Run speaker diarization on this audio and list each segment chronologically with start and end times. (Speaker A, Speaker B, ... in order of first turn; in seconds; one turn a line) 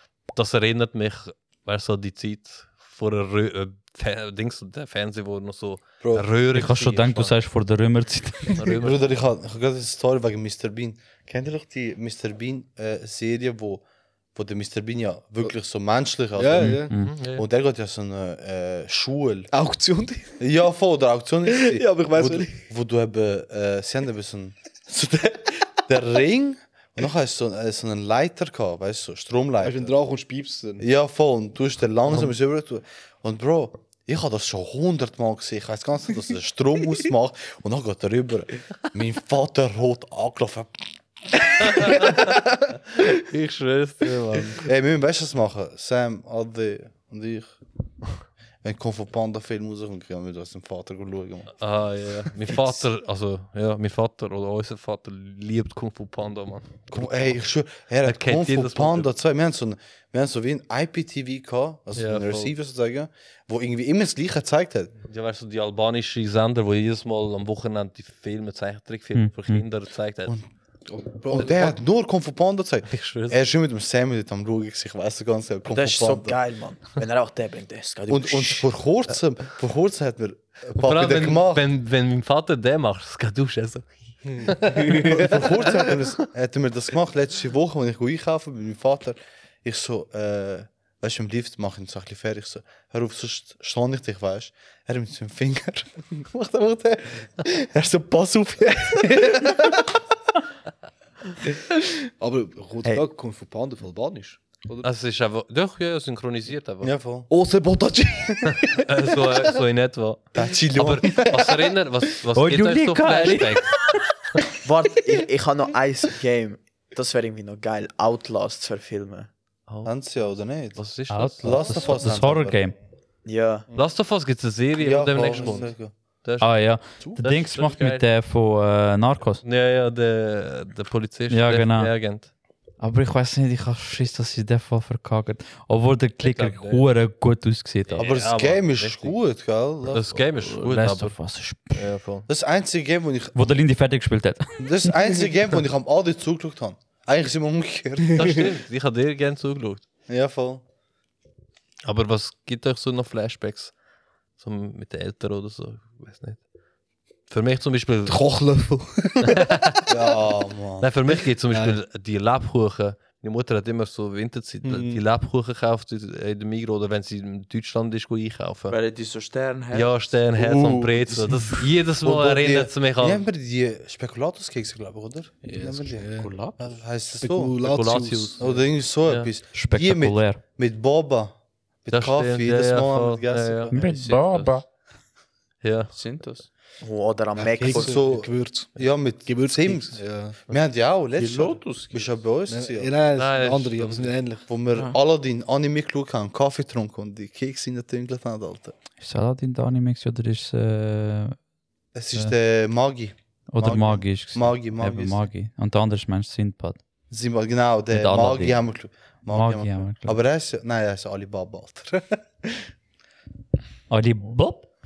Speaker A: 0.3-7.3
Speaker B: 6.0-6.3
Speaker C: 6.5-8.7
Speaker A: 8.6-9.1
Speaker B: 8.8-13.8
Speaker B: 14.3-19.5
Speaker D: 16.4-16.9
Speaker C: 16.7-17.1
Speaker A: 17.0-17.5
Speaker D: 19.5-20.3
Speaker B: 20.4-29.9
Speaker D: 21.5-22.6
Speaker D: 29.6-30.9
Speaker B: 30.8-40.7
Speaker A: 41.6-42.3
Speaker A: 43.0-44.6
Speaker B: 44.6-47.6
Speaker B: 48.6-51.6
Speaker A: 51.6-56.7
Speaker B: 52.5-52.7
Speaker B: 56.9-64.9
Speaker A: 58.0-59.1
Speaker A: 62.0-62.5
Speaker A: 65.1-70.3
Speaker C: 69.2-69.6
Speaker D: 70.9-71.8
Speaker B: 71.3-76.4
Speaker A: 72.9-73.4
Speaker E: 75.7-78.7
Speaker B: 78.1-81.7
Speaker A: 80.8-86.0
Speaker D: 84.4-85.1
Speaker B: 84.9-99.8
Speaker D: 102.1-104.9
Speaker A: 104.8-106.9
Speaker B: 106.8-107.3
Speaker D: 107.3-109.5
Speaker A: 108.7-113.9
Speaker B: 110.3-111.5
Speaker C: 112.3-113.9
Speaker E: 114.6-119.3
Speaker A: 119.7-119.9
Speaker B: 119.8-120.8
Speaker A: 120.8-121.7
Speaker C: 121.1-122.8
Speaker B: 121.4-122.7
Speaker E: 123.2-123.7
Speaker A: 123.8-128.0
Speaker B: 124.8-125.9
Speaker C: 126.4-129.4
Speaker A: 129.4-132.3
Speaker C: 131.3-131.9
Speaker C: 132.8-138.1
Speaker A: 136.2-136.9
Speaker A: 137.9-139.1
Speaker B: 138.0-140.1
Speaker A: 139.9-141.2
Speaker C: 140.4-141.8
Speaker A: 141.7-142.3
Speaker B: 142.3-143.4
Speaker C: 143.3-144.9
Speaker B: 144.6-148.4
Speaker A: 148.2-149.8
Speaker B: 150.1-150.6
Speaker A: 151.8-153.7
Speaker A: 154.4-156.4
Speaker A: 157.3-158.2
Speaker D: 158.1-159.5
Speaker A: 159.2-159.9
Speaker B: 159.9-160.9
Speaker A: 160.8-168.8
Speaker D: 161.5-161.8
Speaker B: 164.7-165.0
Speaker F: 168.7-170.1
Speaker A: 169.7-173.2
Speaker B: 170.4-177.6
Speaker D: 175.4-176.3
Speaker F: 176.2-176.8
Speaker D: 177.2-178.6
Speaker A: 177.6-178.5
Speaker B: 178.4-183.8
Speaker A: 179.1-179.3
Speaker C: 179.6-180.4
Speaker A: 181.9-183.8
Speaker C: 183.7-184.6
Speaker F: 183.8-184.6
Speaker A: 185.6-185.9
Speaker F: 185.9-186.5
Speaker E: 186.8-188.1
Speaker D: 187.4-190.4
Speaker B: 187.7-192.9
Speaker F: 191.2-192.1
Speaker D: 192.5-194.5
Speaker A: 193.2-194.1
Speaker B: 194.5-198.7
Speaker C: 199.0-201.4
Speaker B: 201.9-205.3
Speaker C: 203.5-206.8
Speaker B: 207.1-212.2
Speaker C: 207.9-208.6
Speaker C: 209.3-210.2
Speaker C: 213.9-214.7